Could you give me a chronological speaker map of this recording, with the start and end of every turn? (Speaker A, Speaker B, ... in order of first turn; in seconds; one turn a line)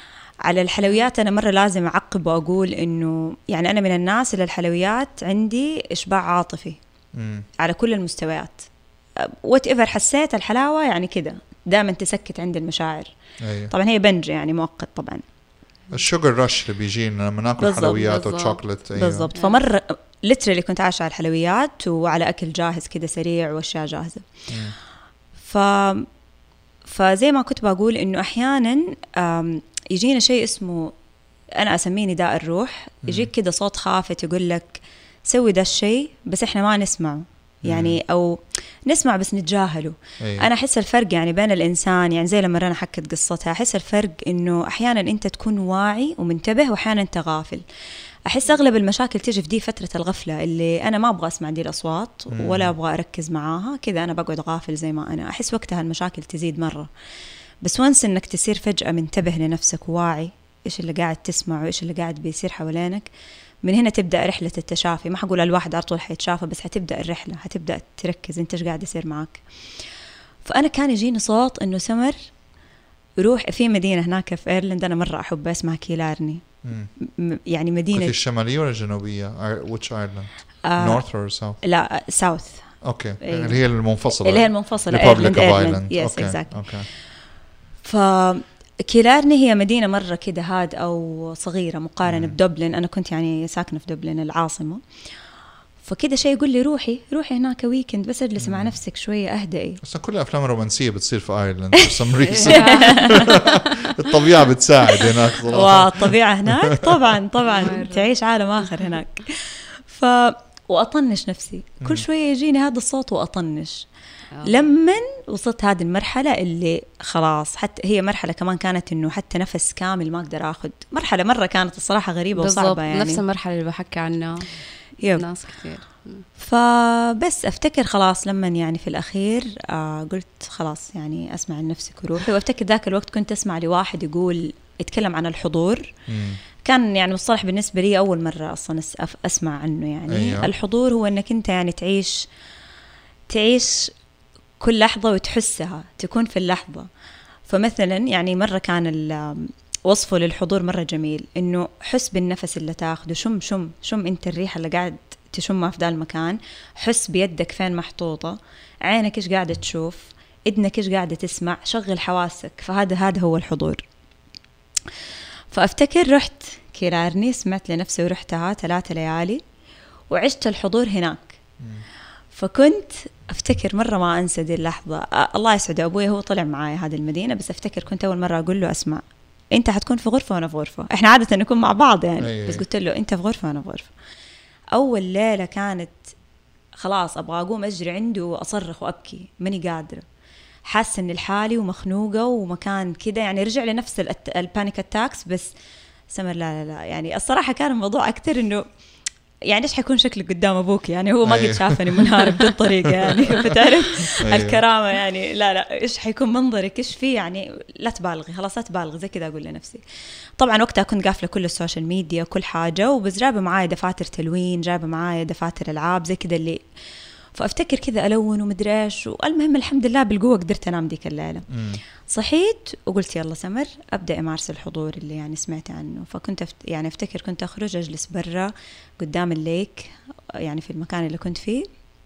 Speaker A: 0.4-6.8
Speaker B: 7.1-7.5
Speaker A: 7.6-8.7
Speaker A: 9.2-13.1
Speaker B: 13.4-13.7
Speaker A: 13.7-15.2
Speaker B: 15.9-19.3
Speaker A: 17.6-18.4
Speaker C: 18.2-18.6
Speaker A: 18.9-24.3
Speaker C: 19.3-19.6
Speaker B: 24.5-24.8
Speaker A: 25.4-26.1
Speaker A: 26.8-30.9
Speaker A: 31.6-47.6
Speaker B: 33.0-33.3
Speaker B: 37.6-38.0
Speaker B: 40.2-40.5
Speaker A: 48.2-56.9
Speaker B: 52.3-52.7
Speaker A: 57.6-63.1
Speaker A: 63.6-69.8
Speaker A: 70.4-72.2
Speaker A: 73.2-76.4
Speaker B: 76.6-76.9
Speaker A: 77.0-78.2
Speaker B: 77.9-81.6
Speaker A: 80.6-81.0
Speaker A: 81.6-82.7
Speaker B: 82.8-86.9
Speaker A: 83.2-86.6
Speaker A: 87.8-94.8
Speaker B: 92.0-92.4
Speaker A: 95.8-99.8
Speaker B: 98.4-98.7
Speaker B: 99.8-107.0
Speaker A: 101.7-103.7
Speaker C: 102.4-103.5
Speaker A: 104.8-113.9
Speaker C: 107.5-108.1
Speaker C: 114.3-114.6
Speaker A: 114.4-123.2
Speaker C: 122.3-124.5
Speaker A: 125.0-125.2
Speaker C: 125.0-126.2
Speaker A: 126.4-135.9
Speaker B: 136.1-136.4
Speaker A: 136.6-142.3
Speaker B: 140.1-140.5
Speaker A: 143.3-143.9
Speaker A: 144.6-146.9
Speaker A: 147.5-163.8
Speaker A: 165.5-169.4
Speaker A: 170.1-171.4
Speaker B: 171.6-171.8
Speaker A: 172.3-183.9
Speaker B: 182.2-182.6
Speaker A: 184.7-186.1
Speaker A: 186.8-190.0
Speaker A: 190.7-195.5
Speaker A: 196.1-198.6
Speaker A: 199.4-209.8
Speaker B: 201.2-204.6
Speaker A: 210.4-216.6
Speaker A: 217.3-221.4
Speaker B: 221.5-221.8
Speaker A: 222.1-231.7